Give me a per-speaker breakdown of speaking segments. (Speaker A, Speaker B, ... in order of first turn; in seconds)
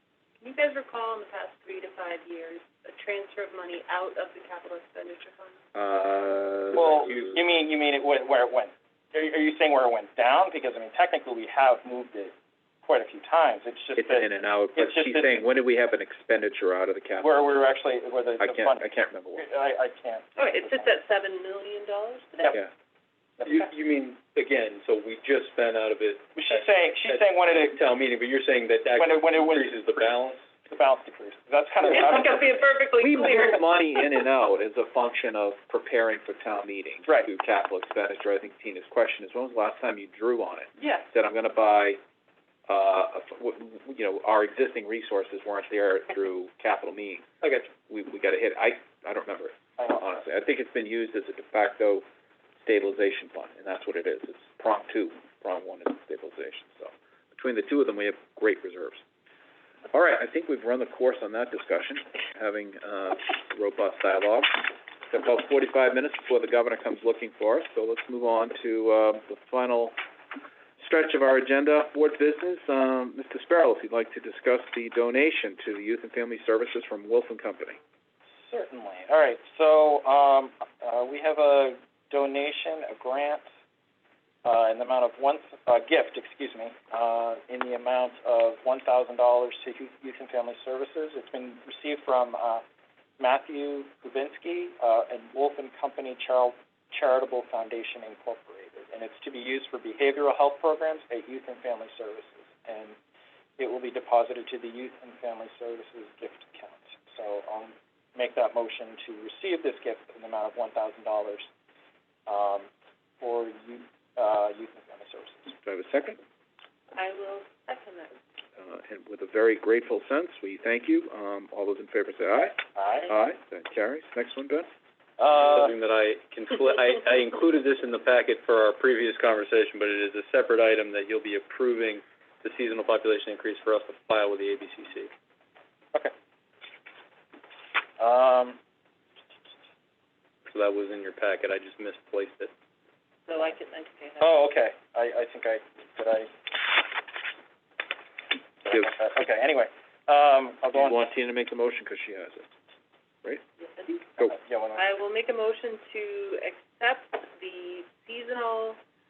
Speaker A: 0.4-5.6, 20.4-22.6, 31.9-33.6, 40.8-41.0, 116.9-118.2, 143.3-144.4, 153.6-154.2, 154.8-158.8
Speaker B: 5.8-7.4, 14.0-17.3, 18.4-19.4, 33.0-42.0, 42.7-47.2, 47.9-52.0, 52.6-59.0, 59.9-70.0, 70.8-77.8, 115.6-116.2, 118.6-124.7, 150.7-152.5
Speaker C: 6.7-15.3, 17.2-20.9, 26.4-27.8, 28.9-30.0, 30.7-32.6, 49.8-50.0, 78.5-83.5, 84.4-92.6, 93.2-103.0, 103.6-111.5, 112.3-112.7, 113.2-115.5, 122.8-123.1, 125.2-125.6, 138.0-138.6, 144.2-146.3, 148.6-151.1, 154.2-154.8
Speaker D: 23.4-30.4, 47.4-47.7, 125.3-135.1, 140.5-142.5